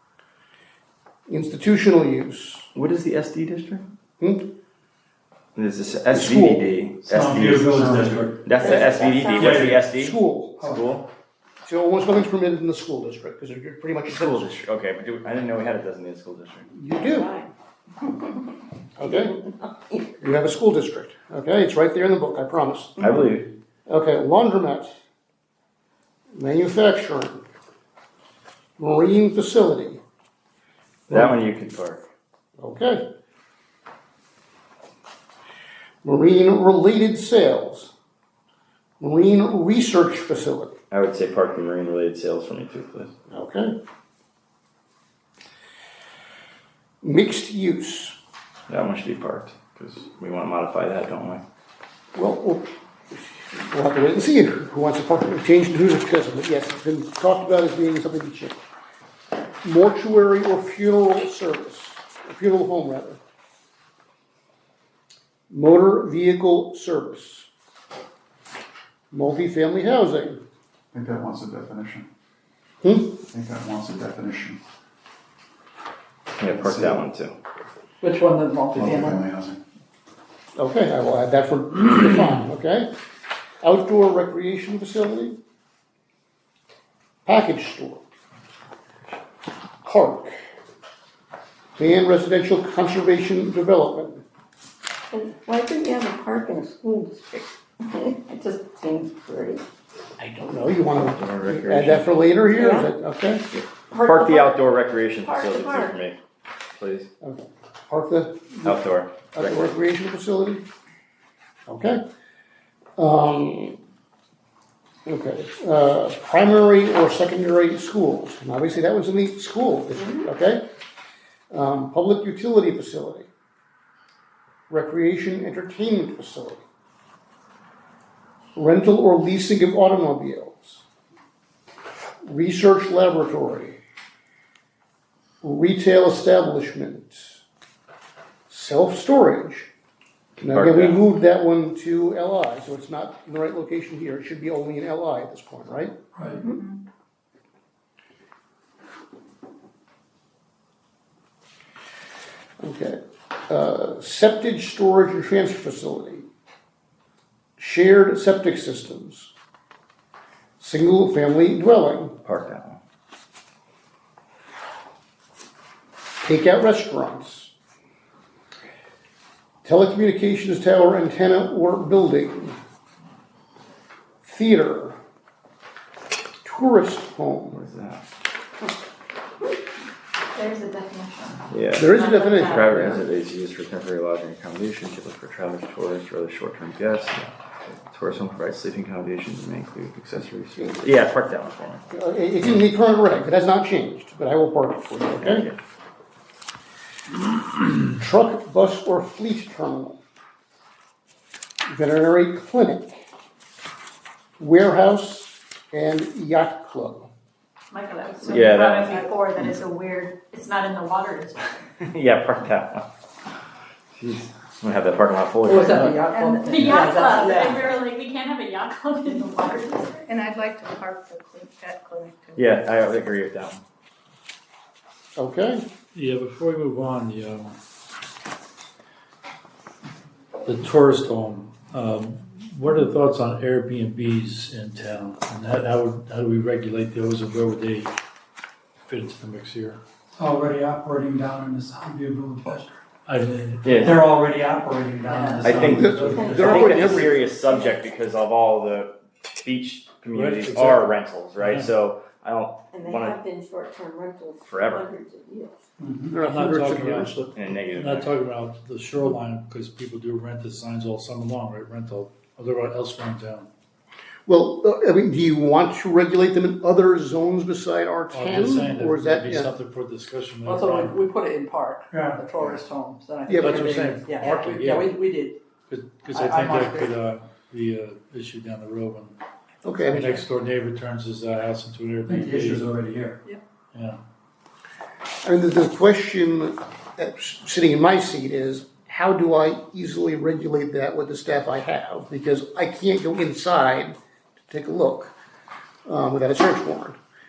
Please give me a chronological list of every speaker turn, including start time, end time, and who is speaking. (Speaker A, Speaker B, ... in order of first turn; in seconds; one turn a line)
Speaker A: 1.3-2.7
Speaker B: 2.7-3.9
Speaker A: 4.2-4.5
Speaker B: 5.5-11.1
Speaker A: 6.1-6.7
Speaker C: 7.1-8.3
Speaker D: 7.8-8.2
Speaker E: 8.6-9.5
Speaker A: 8.6-10.7
Speaker A: 11.6-14.5
Speaker B: 14.1-16.7
Speaker A: 16.7-17.3
Speaker E: 17.0-17.5
Speaker A: 19.0-19.4
Speaker A: 20.2-23.0
Speaker B: 23.0-23.5
Speaker A: 23.9-24.9
Speaker A: 26.3-27.4
Speaker A: 28.8-30.0
Speaker A: 31.1-31.4
Speaker B: 31.1-32.0
Speaker A: 32.6-33.0
Speaker A: 36.0-37.9
Speaker A: 39.0-40.8
Speaker B: 40.9-43.1
Speaker A: 43.3-43.7
Speaker A: 47.0-48.1
Speaker B: 48.7-51.4
Speaker A: 52.1-58.6
Speaker A: 59.6-63.2
Speaker A: 65.5-67.5
Speaker A: 69.1-70.4
Speaker F: 70.9-72.0
Speaker A: 72.8-73.2
Speaker F: 73.3-74.6
Speaker B: 76.4-77.3
Speaker F: 76.4-77.0
Speaker G: 78.0-79.2
Speaker F: 78.7-79.6
Speaker A: 80.5-82.9
Speaker A: 83.6-85.4
Speaker A: 87.2-88.0
Speaker A: 89.8-90.3
Speaker A: 91.8-94.2
Speaker E: 95.1-99.6
Speaker A: 100.2-103.5
Speaker B: 101.1-102.3
Speaker E: 102.4-102.9
Speaker B: 103.5-106.2
Speaker E: 103.9-104.6
Speaker E: 105.2-105.9
Speaker B: 106.7-107.1
Speaker A: 107.2-108.8
Speaker B: 108.7-109.6
Speaker A: 109.3-110.6
Speaker A: 111.7-112.0
Speaker A: 113.0-113.8
Speaker A: 115.0-120.6
Speaker A: 121.5-123.3
Speaker A: 124.7-126.6
Speaker A: 128.5-130.8
Speaker A: 132.2-133.8
Speaker A: 135.4-137.4
Speaker A: 138.5-139.7
Speaker B: 140.4-141.0
Speaker A: 140.4-145.9
Speaker A: 152.6-156.3
Speaker A: 157.6-159.3
Speaker A: 160.6-162.2
Speaker B: 162.2-162.8
Speaker A: 166.2-167.5
Speaker A: 169.6-172.6
Speaker A: 174.2-175.0
Speaker A: 176.4-177.6
Speaker B: 177.5-178.0
Speaker H: 180.3-183.0
Speaker B: 181.5-187.3
Speaker A: 181.7-183.0
Speaker B: 187.9-191.9
Speaker A: 191.9-195.5
Speaker B: 195.2-195.6
Speaker A: 197.9-200.0
Speaker A: 201.7-203.0
Speaker A: 204.4-207.1
Speaker H: 207.7-211.6
Speaker B: 208.2-209.0
Speaker B: 211.8-212.8
Speaker B: 213.9-216.0
Speaker G: 215.4-217.7
Speaker I: 216.1-216.5
Speaker H: 216.4-220.0
Speaker I: 220.1-222.5
Speaker B: 222.3-223.6
Speaker A: 225.2-225.6
Speaker D: 225.9-227.5
Speaker D: 230.4-237.9
Speaker D: 238.8-239.8
Speaker C: 240.2-242.7
Speaker D: 243.1-244.0
Speaker B: 243.6-244.0
Speaker C: 243.9-245.7
Speaker G: 244.8-246.1
Speaker B: 245.4-253.2
Speaker A: 245.6-247.3
Speaker D: 245.7-246.2
Speaker E: 246.0-247.8
Speaker D: 250.1-251.7
Speaker E: 252.7-255.6
Speaker B: 254.4-254.9
Speaker A: 256.1-257.2
Speaker D: 256.1-263.5
Speaker B: 257.3-258.1
Speaker A: 264.2-269.5
Speaker D: 268.1-271.0
Speaker G: 270.4-275.4
Speaker A: 273.3-273.6
Speaker D: 273.3-275.0
Speaker D: 275.7-279.1
Speaker G: 276.1-276.9
Speaker A: 279.6-280.2
Speaker D: 279.8-282.8
Speaker G: 282.1-283.4
Speaker A: 285.2-294.0
Speaker A: 294.5-295.1
Speaker A: 295.9-296.9